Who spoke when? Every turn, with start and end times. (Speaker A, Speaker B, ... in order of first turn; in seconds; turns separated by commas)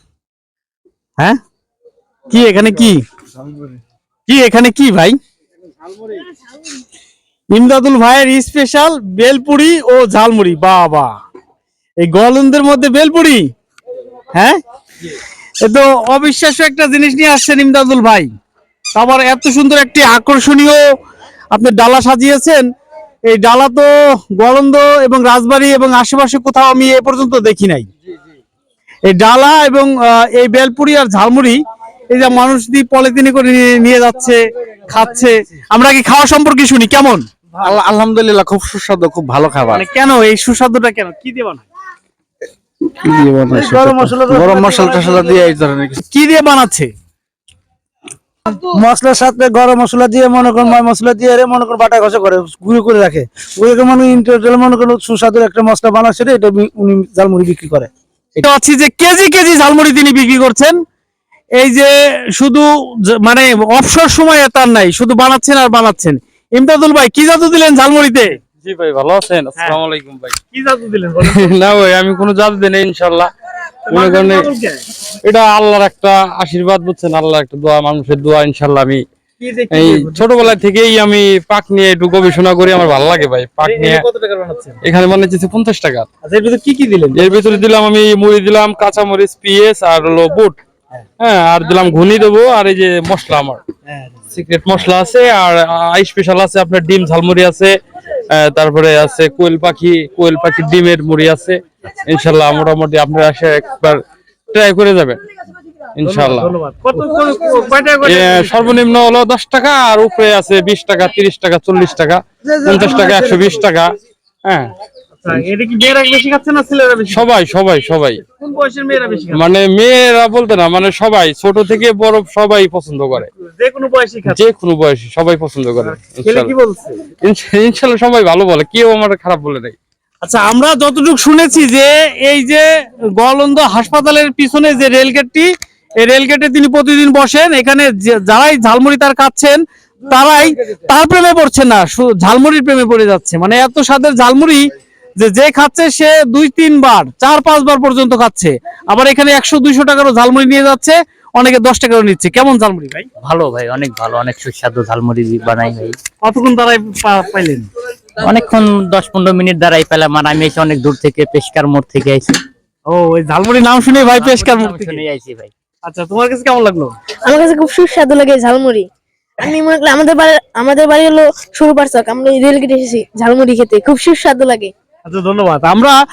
Speaker A: 2.3-3.0, Speaker A: 4.3-5.2, Speaker A: 7.5-11.1, Speaker A: 12.0-13.5, Speaker A: 14.3-14.6, Speaker A: 15.6-18.3, Speaker A: 18.9-20.8, Speaker A: 21.5-22.7, Speaker A: 23.3-27.9, Speaker A: 29.1-37.2, Speaker B: 37.9-39.8, Speaker A: 39.7-41.6, Speaker B: 43.1-46.0, Speaker C: 43.5-45.5, Speaker A: 46.1-46.9, Speaker C: 48.5-58.4, Speaker A: 58.4-60.7, Speaker A: 61.6-68.4, Speaker D: 68.6-70.4, Speaker A: 70.5-71.7, Speaker D: 71.2-73.3, Speaker A: 73.9-74.8, Speaker D: 73.9-74.5, Speaker D: 75.2-79.0, Speaker A: 79.4-80.6, Speaker D: 79.7-84.0, Speaker A: 83.6-84.8, Speaker D: 84.8-86.1, Speaker A: 86.2-87.4, Speaker D: 87.2-90.6, Speaker D: 91.2-93.6, Speaker D: 94.3-97.7, Speaker D: 98.3-105.2, Speaker D: 106.0-106.5, Speaker A: 106.0-108.8, Speaker D: 108.0-114.7, Speaker C: 112.5-113.5, Speaker A: 115.2-117.3, Speaker D: 117.1-118.2, Speaker A: 118.3-119.5, Speaker D: 119.3-123.3, Speaker A: 123.2-124.4, Speaker D: 124.3-126.5, Speaker A: 126.2-127.0, Speaker D: 127.2-129.8, Speaker A: 130.2-135.5, Speaker A: 136.0-153.1, Speaker E: 153.3-155.9, Speaker A: 156.2-157.7, Speaker E: 158.3-162.4, Speaker A: 162.9-165.0, Speaker E: 164.2-165.5, Speaker A: 165.8-166.9, Speaker F: 167.2-168.9, Speaker F: 169.4-174.7, Speaker A: 175.1-176.0